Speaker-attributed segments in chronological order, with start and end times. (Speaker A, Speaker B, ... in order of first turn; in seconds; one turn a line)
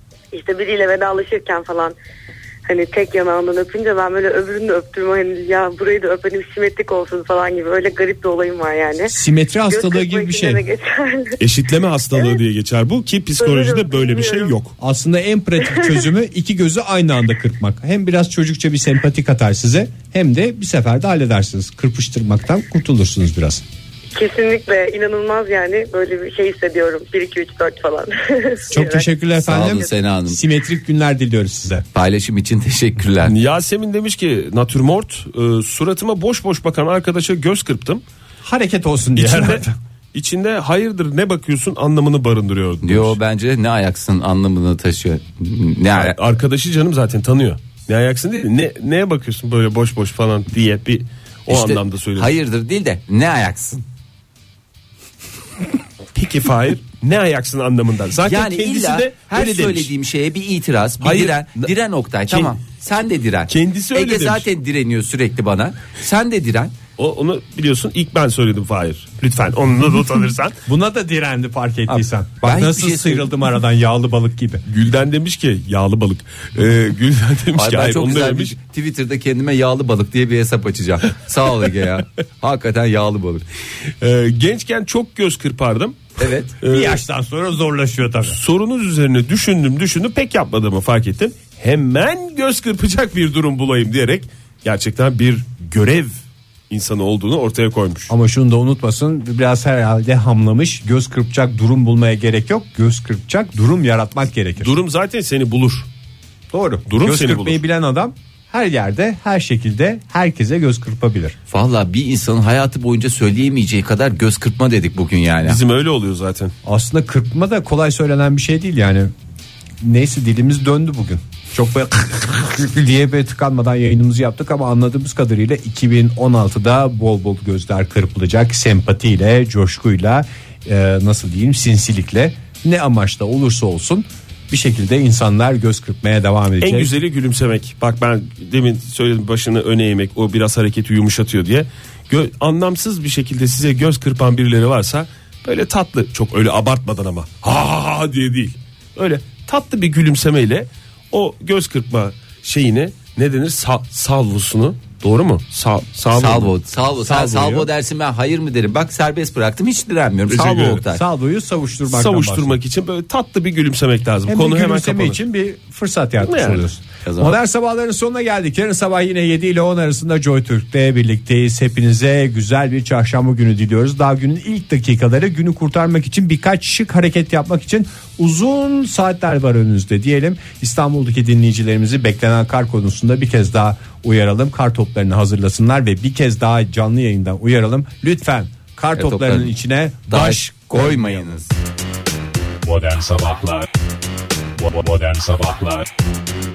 Speaker A: 0.3-1.9
Speaker A: 2.7-9.1
Speaker B: 9.1-10.6
Speaker A: 9.7-11.4
Speaker C: 11.4-14.7
Speaker A: 13.4-14.6
Speaker B: 14.8-23.6
Speaker A: 15.6-16.0
Speaker A: 24.1-29.1
Speaker B: 28.7-31.8
Speaker D: 29.4-30.4
Speaker D: 31.9-33.4
Speaker C: 33.2-38.0
Speaker B: 38.4-39.7
Speaker C: 39.1-43.2
Speaker D: 42.8-46.1
Speaker C: 45.9-52.3
Speaker D: 51.5-53.8
Speaker C: 56.1-59.9
Speaker D: 58.2-66.8
Speaker C: 61.0-61.7
Speaker C: 63.5-64.5
Speaker C: 67.0-70.5
Speaker B: 70.7-74.6
Speaker D: 71.9-73.4
Speaker C: 74.7-78.5
Speaker D: 77.5-83.5
Speaker C: 84.0-87.0
Speaker D: 86.2-86.5
Speaker B: 86.7-88.4
Speaker C: 88.3-96.1
Speaker C: 96.7-98.1
Speaker B: 98.1-104.7
Speaker C: 104.6-105.9
Speaker B: 106.5-111.4
Speaker C: 106.9-107.6
Speaker D: 111.5-115.6
Speaker C: 115.4-116.5
Speaker B: 116.6-119.1
Speaker B: 119.8-136.9
Speaker C: 136.6-156.5
Speaker D: 156.1-161.0
Speaker B: 157.0-157.7
Speaker C: 160.3-160.8
Speaker B: 160.9-162.5
Speaker C: 161.9-165.2
Speaker B: 164.3-191.2
Speaker C: 166.2-166.7
Speaker D: 167.0-167.3
Speaker D: 189.0-189.5
Speaker D: 190.1-191.5
Speaker E: 192.6-193.7
Speaker E: 194.6-195.9